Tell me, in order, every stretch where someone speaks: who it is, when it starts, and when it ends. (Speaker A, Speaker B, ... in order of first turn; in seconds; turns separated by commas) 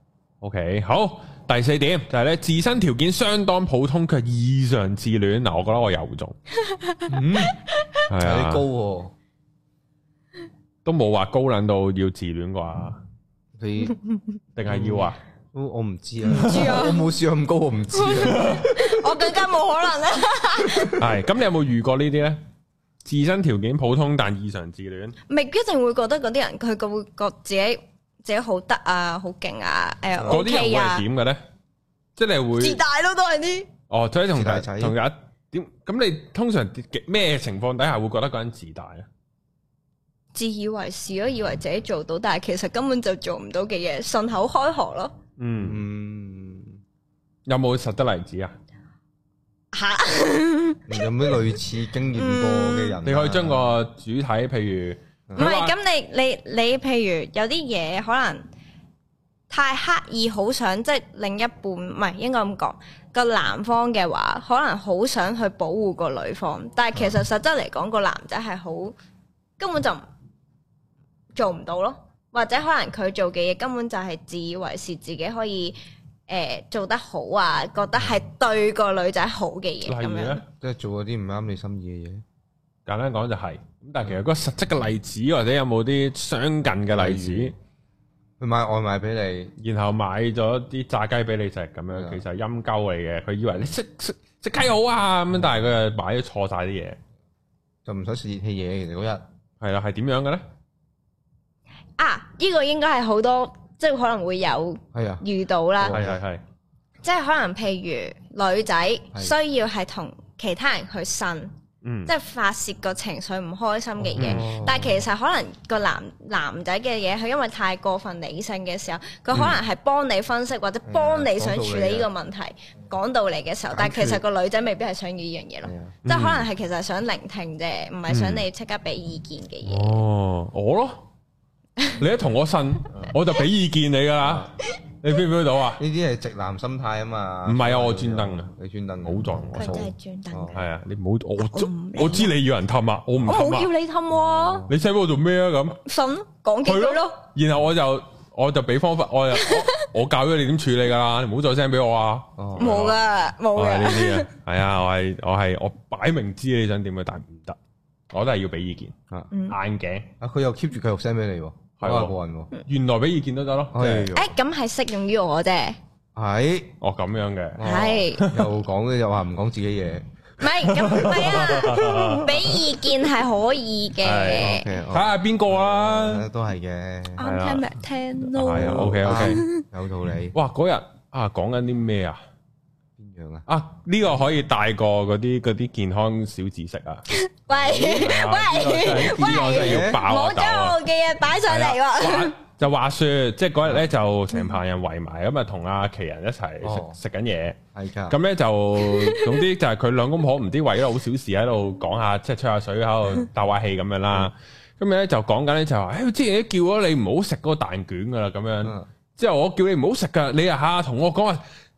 Speaker A: 0.4-6.3, Speaker B: 6.7-7.1, Speaker C: 7.1-7.5, Speaker A: 8.1-8.6, Speaker C: 8.1-9.1, Speaker A: 10.8-13.0, Speaker C: 13.6-13.9, Speaker A: 14.5-15.2, Speaker C: 14.7-19.0, Speaker B: 16.3-17.1, Speaker A: 16.3-16.8, Speaker B: 17.9-21.0, Speaker A: 18.3-18.7, Speaker A: 20.9-22.4, Speaker A: 23.0-25.1, Speaker B: 25.3-31.0, Speaker A: 30.3-31.4, Speaker A: 32.1-32.8, Speaker B: 32.6-33.7, Speaker A: 33.9-39.1, Speaker C: 34.3-35.0, Speaker B: 40.3-45.1, Speaker A: 45.4-45.8, Speaker C: 45.6-46.8, Speaker A: 47.5-48.5, Speaker B: 49.7-51.4, Speaker C: 50.9-53.7, Speaker B: 52.1-53.0, Speaker A: 53.0-55.7, Speaker B: 55.4-58.4, Speaker B: 59.5-68.9, Speaker B: 69.6-70.0, Speaker B: 71.3-75.8, Speaker B: 76.3-80.4, Speaker A: 79.8-80.4, Speaker C: 80.6-82.2, Speaker A: 82.8-87.5, Speaker C: 86.9-87.5, Speaker C: 88.4-89.5, Speaker A: 89.6-97.0, Speaker C: 91.9-92.2, Speaker C: 97.8-99.2, Speaker A: 99.6-100.4, Speaker B: 102.0-106.0, Speaker C: 104.9-105.2, Speaker C: 105.8-106.2, Speaker A: 105.8-106.4, Speaker B: 107.0-111.5, Speaker A: 111.8-112.1, Speaker B: 112.0-130.0, Speaker C: 114.0-115.0, Speaker A: 114.2-114.5, Speaker C: 120.8-122.1, Speaker C: 123.7-124.2, Speaker C: 125.6-126.0, Speaker A: 126.0-126.5, Speaker A: 128.1-128.4, Speaker A: 129.6-131.0, Speaker A: 132.0-135.8, Speaker C: 134.2-134.5, Speaker C: 135.8-140.6, Speaker A: 137.4-138.5, Speaker A: 139.0-139.9, Speaker B: 139.5-140.6, Speaker A: 140.5-143.7, Speaker B: 141.4-142.3, Speaker B: 143.2-144.7, Speaker C: 144.1-144.7, Speaker A: 144.7-145.8, Speaker B: 145.8-147.2, Speaker A: 146.6-153.0, Speaker B: 149.3-149.7, Speaker C: 152.4-152.9, Speaker B: 152.6-154.3, Speaker A: 153.5-157.6, Speaker A: 158.1-158.9, Speaker B: 159.3-159.6, Speaker A: 159.5-160.1, Speaker C: 160.2-162.5, Speaker A: 161.8-162.1, Speaker A: 162.6-164.1, Speaker C: 163.7-164.3, Speaker B: 164.1-165.8, Speaker C: 166.1-166.8, Speaker A: 166.8-168.5, Speaker C: 167.6-170.1, Speaker B: 167.6-168.3, Speaker B: 170.4-174.7, Speaker A: 170.6-172.7, Speaker A: 174.0-176.3, Speaker C: 174.4-177.2, Speaker B: 177.2-179.6, Speaker A: 177.2-177.7, Speaker A: 178.3-179.4, Speaker C: 178.5-180.3, Speaker A: 180.3-182.2, Speaker C: 183.0-183.4, Speaker A: 183.5-187.0, Speaker B: 187.1-192.3, Speaker C: 187.5-190.0, Speaker A: 187.8-190.8, Speaker A: 191.5-211.4, Speaker C: 196.6-197.0, Speaker C: 197.7-198.2, Speaker B: 198.8-199.4